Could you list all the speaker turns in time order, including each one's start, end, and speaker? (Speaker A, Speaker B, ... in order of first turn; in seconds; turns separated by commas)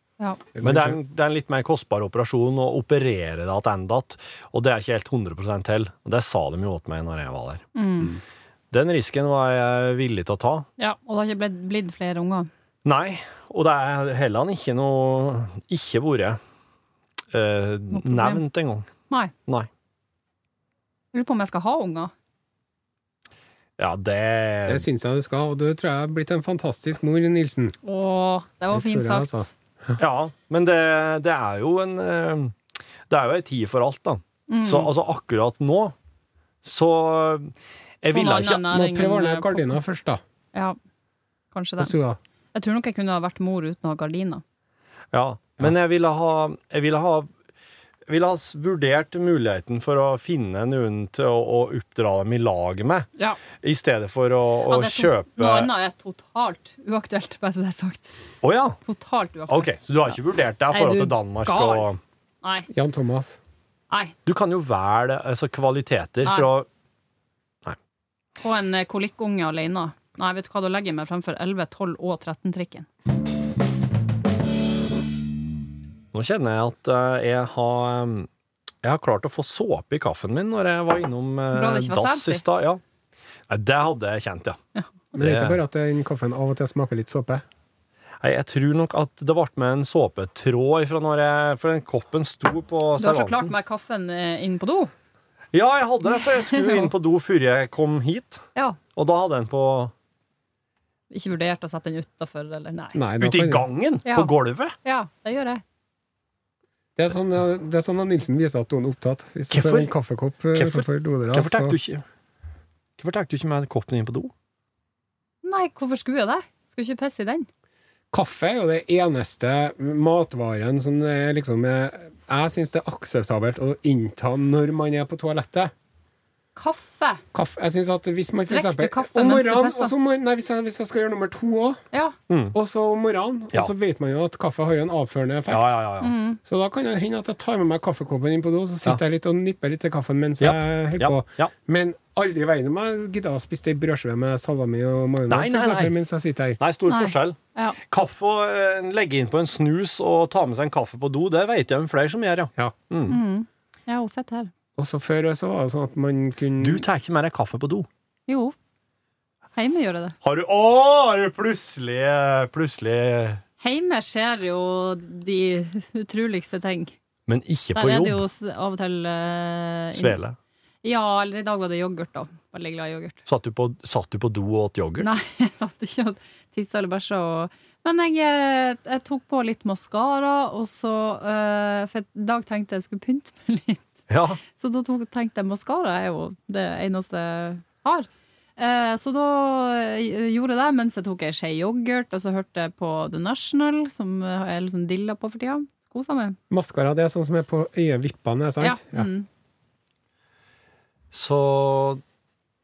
Speaker A: 0.6-1.0, Speaker B: 0.6-7.6, Speaker C: 7.8-8.2, Speaker B: 8.7-10.7, Speaker C: 10.8-12.5, Speaker B: 12.8-16.4, Speaker B: 17.3-18.9, Speaker C: 17.9-18.4, Speaker C: 21.1-22.1, Speaker B: 23.8-24.9, Speaker A: 24.7-27.8, Speaker C: 27.8-29.5, Speaker A: 28.7-30.0, Speaker B: 30.0-32.6, Speaker B: 33.1-35.9, Speaker C: 34.5-34.9, Speaker B: 36.6-38.7, Speaker C: 38.1-39.8, Speaker A: 38.7-40.2, Speaker C: 41.5-41.9, Speaker A: 41.8-42.2, Speaker C: 42.5-44.4, Speaker B: 45.1-47.3, Speaker B: 48.1-55.7, Speaker C: 54.6-58.1, Speaker B: 58.4-58.8, Speaker C: 58.9-59.7, Speaker B: 59.5-62.0, Speaker C: 60.7-61.9, Speaker C: 62.4-62.7, Speaker A: 62.7-63.4, Speaker B: 64.3-66.7, Speaker C: 68.4-72.9, Speaker B: 76.1-78.3, Speaker B: 78.8-82.8, Speaker C: 81.5-82.4, Speaker B: 83.5-84.6, Speaker A: 85.1-87.4, Speaker B: 85.2-85.6, Speaker B: 88.2-93.5, Speaker C: 93.0-94.9, Speaker B: 95.5-98.4, Speaker C: 96.2-96.9, Speaker B: 99.0-99.9, Speaker C: 101.1-103.0, Speaker A: 102.9-103.7, Speaker B: 103.2-104.8, Speaker C: 104.1-104.3, Speaker C: 104.8-105.6, Speaker A: 107.0-111.8, Speaker B: 109.5-109.9, Speaker B: 110.5-112.0, Speaker B: 113.0-114.3, Speaker C: 115.4-117.5, Speaker A: 118.1-125.7, Speaker C: 126.6-127.2, Speaker A: 127.3-131.8, Speaker C: 128.5-129.9, Speaker B: 132.3-132.6, Speaker A: 132.5-135.8, Speaker B: 135.5-136.1, Speaker C: 136.0-136.4, Speaker A: 136.4-146.6, Speaker B: 140.4-141.5, Speaker B: 145.3-145.9, Speaker B: 146.6-153.2, Speaker C: 146.9-147.8, Speaker C: 153.1-154.5, Speaker A: 154.8-156.8, Speaker B: 156.6-157.9, Speaker C: 158.3-158.6, Speaker C: 159.6-160.2, Speaker B: 160.2-163.4, Speaker C: 163.6-166.9, Speaker B: 167.3-168.2, Speaker C: 167.8-170.2, Speaker B: 169.9-170.4, Speaker C: 170.8-173.2, Speaker B: 173.3-175.1, Speaker C: 175.0-183.9, Speaker B: 184.1-184.4, Speaker C: 184.4-196.4, Speaker A: 196.5-199.1, Speaker C: 198.6-199.3, Speaker B: 201.1-202.0